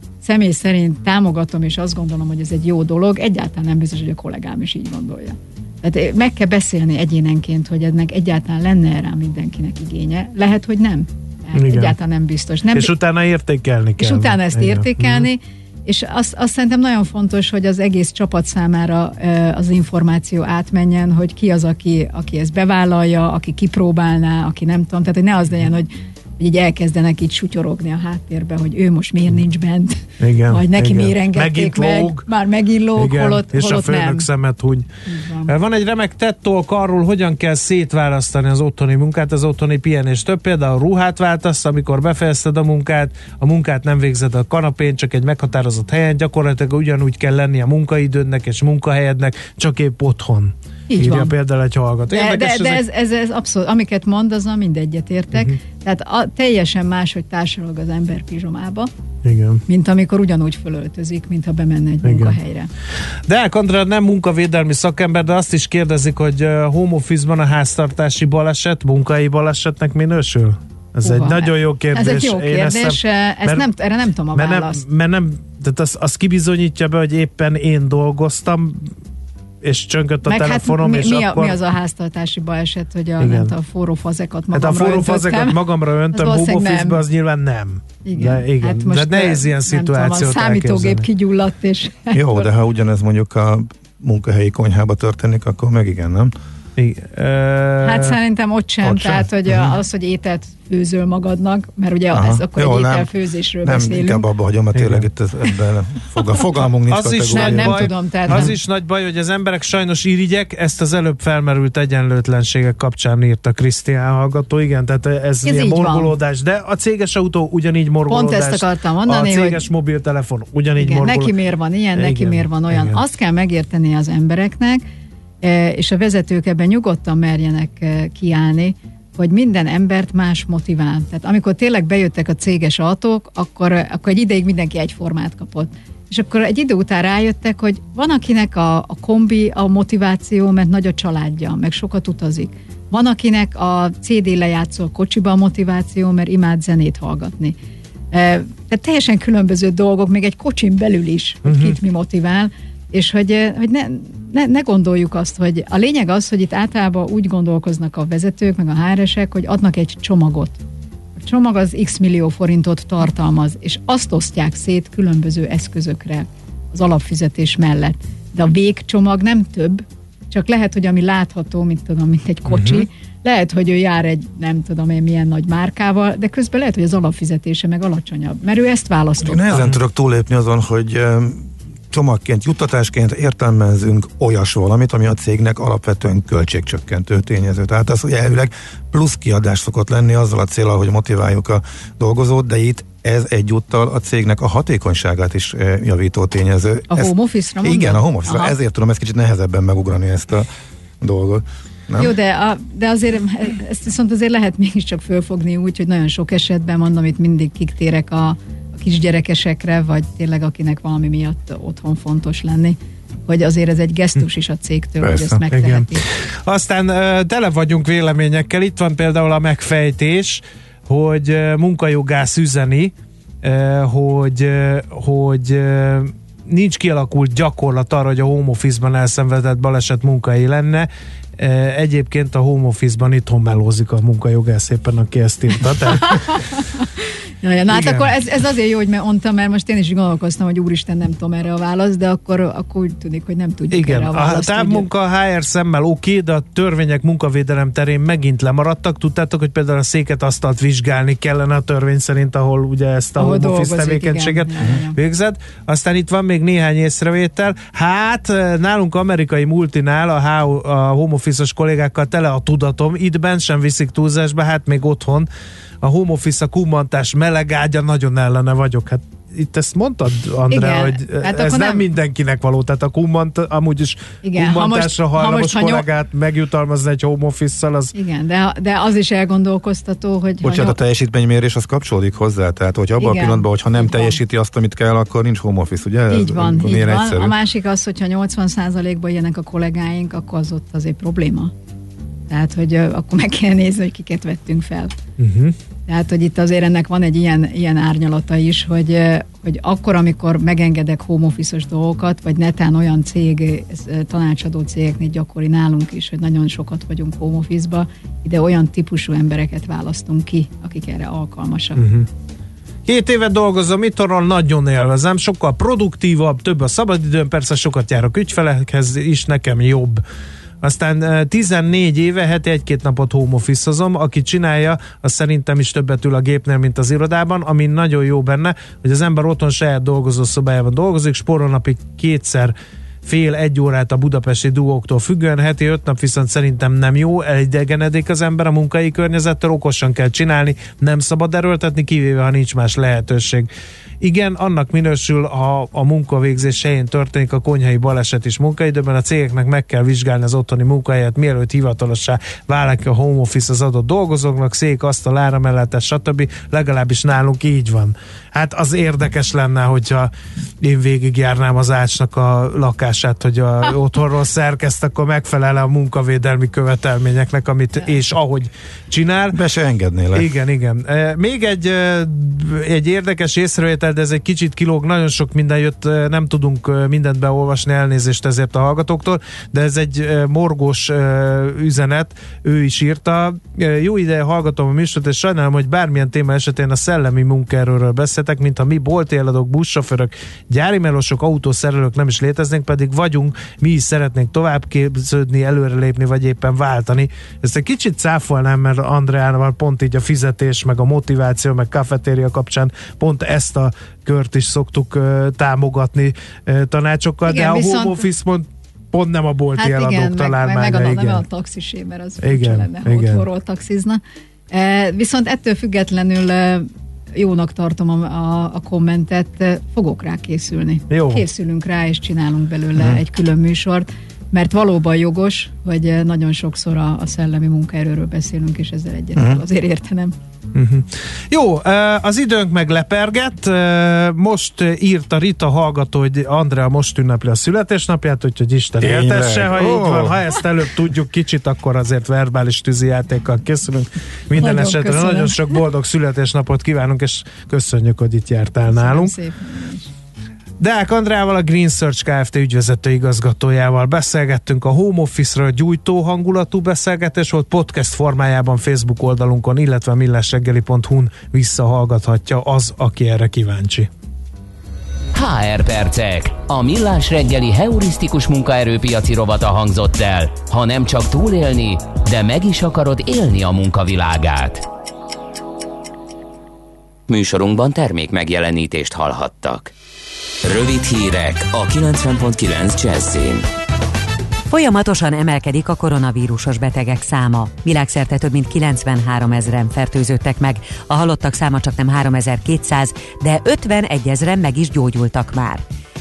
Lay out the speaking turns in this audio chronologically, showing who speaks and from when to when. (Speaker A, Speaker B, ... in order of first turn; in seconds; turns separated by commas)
Speaker A: 0.2-12.9, Speaker B: 11.6-11.9, Speaker B: 12.7-15.3, Speaker A: 14.0-34.3, Speaker B: 30.2-32.2, Speaker B: 33.0-34.9, Speaker A: 35.1-35.5, Speaker B: 35.5-52.8, Speaker A: 50.9-51.3, Speaker A: 52.1-58.9, Speaker B: 59.2-59.6, Speaker A: 59.7-62.7, Speaker B: 62.0-62.4, Speaker B: 63.3-73.7, Speaker A: 71.0-74.8, Speaker B: 74.3-78.9, Speaker B: 79.6-81.6, Speaker A: 80.2-85.6, Speaker B: 83.2-83.5, Speaker B: 84.5-91.0, Speaker A: 86.1-87.0, Speaker A: 88.0-92.5, Speaker C: 92.1-96.3, Speaker B: 96.8-98.2, Speaker A: 97.8-104.2, Speaker C: 98.9-99.7, Speaker C: 102.1-103.1, Speaker C: 103.6-108.5, Speaker B: 104.7-105.0, Speaker B: 106.9-121.3, Speaker A: 107.3-108.5, Speaker A: 115.4-116.1, Speaker A: 118.1-119.6, Speaker A: 120.8-124.8, Speaker B: 122.0-123.0, Speaker A: 125.4-147.6, Speaker A: 148.1-160.6, Speaker B: 151.5-151.7, Speaker A: 161.2-179.6, Speaker B: 172.5-172.8, Speaker C: 179.2-197.1, Speaker A: 196.9-198.6, Speaker C: 197.6-200.5, Speaker C: 201.0-202.1, Speaker A: 202.0-216.1, Speaker C: 215.0-215.4, Speaker B: 215.5-236.4, Speaker A: 235.9-244.8, Speaker B: 237.7-238.1, Speaker B: 243.7-265.3, Speaker A: 253.2-255.0, Speaker B: 265.8-277.9, Speaker A: 270.5-271.8, Speaker A: 274.2-275.9, Speaker A: 277.9-280.8, Speaker C: 280.4-287.3, Speaker A: 283.0-284.2, Speaker A: 286.1-291.5, Speaker A: 292.3-294.9, Speaker B: 295.2-295.5, Speaker A: 295.9-311.8, Speaker B: 311.8-312.1, Speaker B: 312.9-320.0, Speaker B: 320.6-332.5, Speaker B: 333.0-343.5, Speaker B: 344.0-360.1, Speaker B: 360.6-369.4, Speaker C: 369.3-370.3, Speaker B: 370.1-411.2, Speaker A: 407.3-408.0, Speaker A: 409.6-414.0, Speaker B: 412.2-413.2, Speaker A: 414.5-430.1, Speaker B: 420.9-421.2, Speaker C: 429.1-429.4, Speaker B: 430.5-449.1, Speaker C: 438.8-440.2, Speaker A: 444.4-445.6, Speaker A: 448.7-449.9, Speaker B: 450.6-463.9, Speaker D: 465.1-474.6, Speaker D: 477.1-479.7, Speaker D: 480.4-483.5, Speaker E: 484.5-495.6